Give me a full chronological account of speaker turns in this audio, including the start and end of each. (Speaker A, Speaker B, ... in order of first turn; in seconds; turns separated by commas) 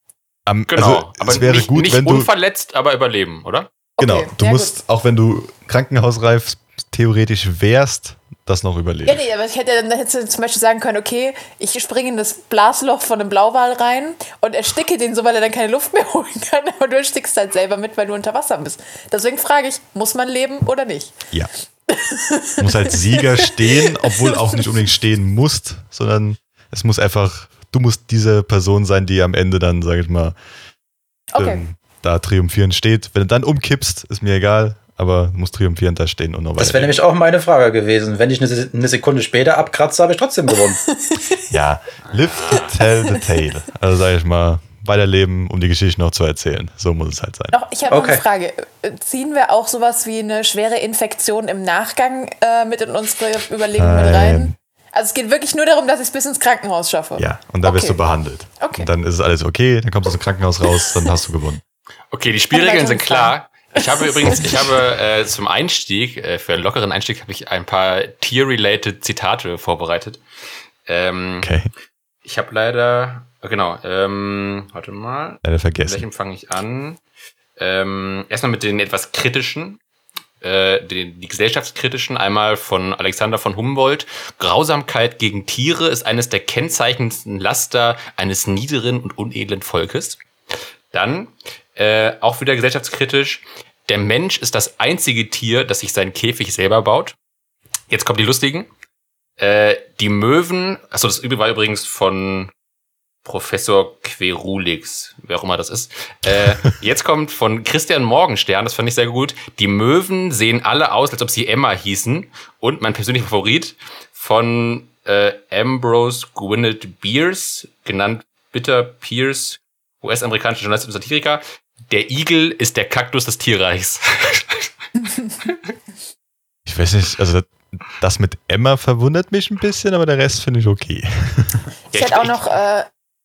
Speaker A: 0.5-2.3, Speaker B: 0.7-3.7, Speaker C: 4.0-4.8, Speaker A: 4.0-9.2, Speaker C: 9.1-21.1, Speaker C: 21.9-24.7, Speaker A: 22.6-30.4, Speaker C: 31.3-31.6, Speaker A: 31.4-37.0, Speaker D: 36.6-40.8, Speaker C: 40.8-41.4, Speaker A: 41.5-47.5, Speaker B: 42.2-42.8, Speaker C: 47.5-58.0, Speaker D: 47.9-48.2, Speaker A: 53.8-54.5, Speaker A: 57.2-61.6, Speaker C: 58.6-58.9, Speaker B: 62.1-70.2, Speaker C: 62.5-63.3, Speaker A: 64.3-64.6, Speaker B: 70.9-71.5, Speaker A: 71.4-71.7, Speaker B: 72.2-77.0, Speaker A: 75.4-76.0, Speaker B: 77.6-79.8, Speaker B: 80.4-90.2, Speaker B: 90.9-97.2, Speaker B: 97.9-98.7, Speaker B: 99.4-102.5, Speaker B: 103.2-124.7, Speaker A: 126.7-131.7, Speaker B: 131.9-132.4, Speaker C: 131.9-132.9